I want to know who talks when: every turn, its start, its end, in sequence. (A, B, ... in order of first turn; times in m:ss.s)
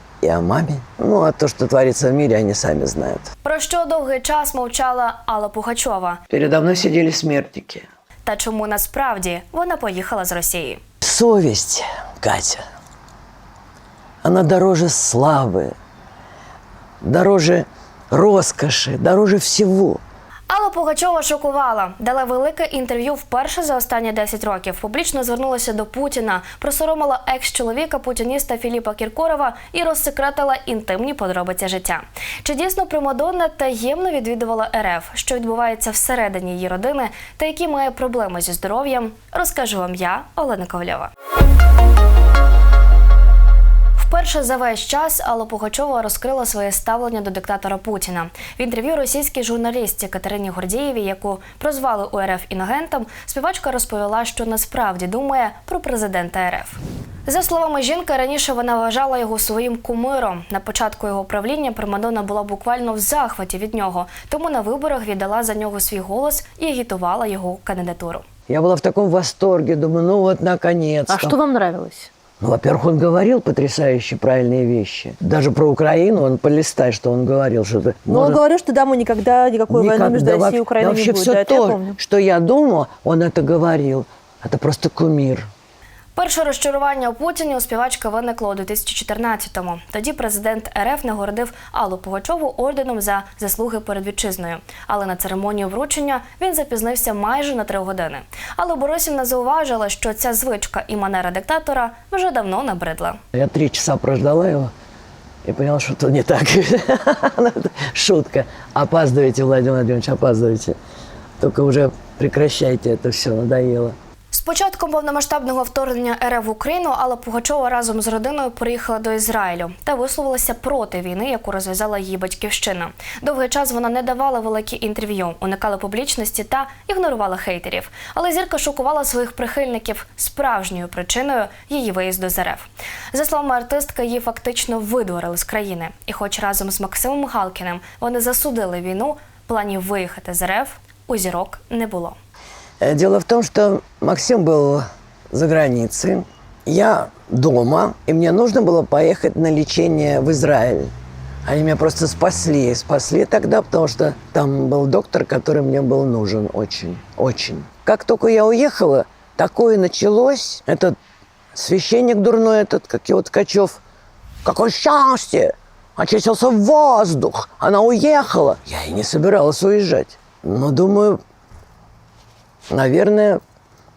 0:00.2-0:03.3 A
0:03.4-0:06.2 B
0:06.3-0:07.9 A
0:08.2-0:10.8 B
0:11.0-0:12.6 A
0:14.2-0:15.7 A
0:17.0-0:20.0 A
0:20.5-0:41.1 B
0:44.0-1:08.2 B
1:08.5-1:11.4 A
1:11.1-1:12.1 C
1:12.4-1:18.4 A
1:18.1-1:22.0 C
1:19.7-1:25.5 A
1:26.1-1:43.2 B
1:43.3-1:44.7 A
1:45.4-1:50.8 A
1:51.4-1:53.9 A
1:54.3-2:22.2 B
2:22.8-2:30.9 A
2:31.4-2:41.0 A
2:41.5-2:43.8 A
2:44.4-2:51.2 A
2:52.7-2:53.4 A